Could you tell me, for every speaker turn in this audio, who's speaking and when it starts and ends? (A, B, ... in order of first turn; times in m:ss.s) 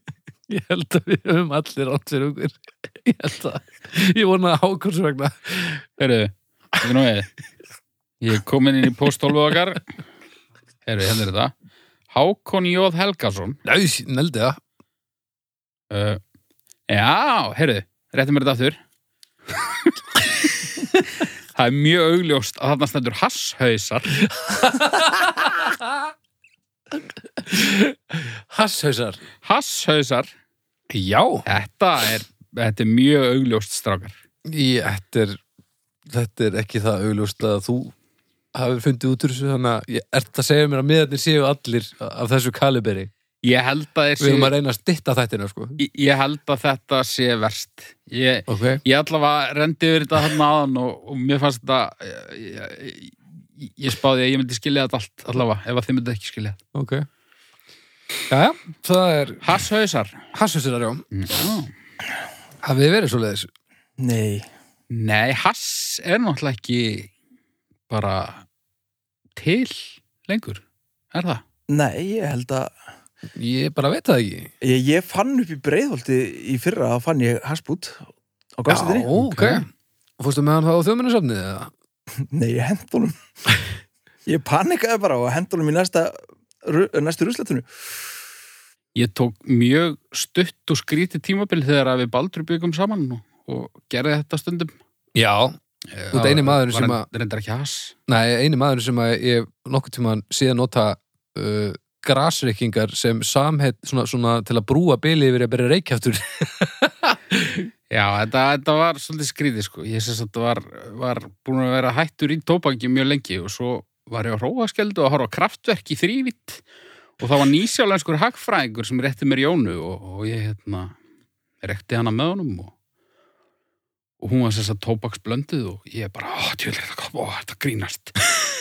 0:00.5-0:05.8 A
0:06.0-0:07.3 B
0:08.2-0:09.8 B
0:10.8-0:11.5 B
0:12.1-0:13.6 B
0:13.6-0:14.6 A
0:15.9-0:16.2 B
0:16.9-0:18.8 B
0:19.6-0:19.9 B
0:21.5-0:24.2 B
0:24.3-0:25.9 A
0:27.4-0:29.2 A
0:29.4-0:30.3 B
0:30.9-0:31.4 A
0:31.4-0:34.1 B
0:34.4-0:35.4 A
0:36.1-0:37.9 A
0:38.5-0:43.1 A
0:43.4-0:44.5 B
0:44.2-0:45.8 A
0:45.8-0:56.6 B
0:48.5-0:48.8 A
0:56.7-0:57.0 A
0:58.3-0:59.4 A
0:59.4-1:00.2 B
1:00.3-1:01.0 A
1:01.1-1:01.7 B
1:02.6-1:03.5 A
1:04.0-1:04.4 C
1:04.9-1:07.1 B
1:07.9-1:08.4 B
1:09.4-1:10.6 B
1:11.1-1:11.4 B
1:11.7-1:12.7 C
1:13.3-1:14.5 A
1:14.6-1:18.0 C
1:18.6-1:19.1 C
1:18.7-1:19.7 A
1:19.2-1:19.6 B
1:20.2-1:21.7 A
1:22.3-1:23.1 C
1:24.2-1:27.7 C
1:28.9-1:34.7 B
1:35.1-1:35.6 A
1:35.9-1:38.0 B
1:36.1-1:37.0 A
1:38.1-1:47.7 A
1:47.9-1:56.6 B
1:57.2-2:00.9 B
2:01.6-2:02.7 B
2:04.2-2:08.2 B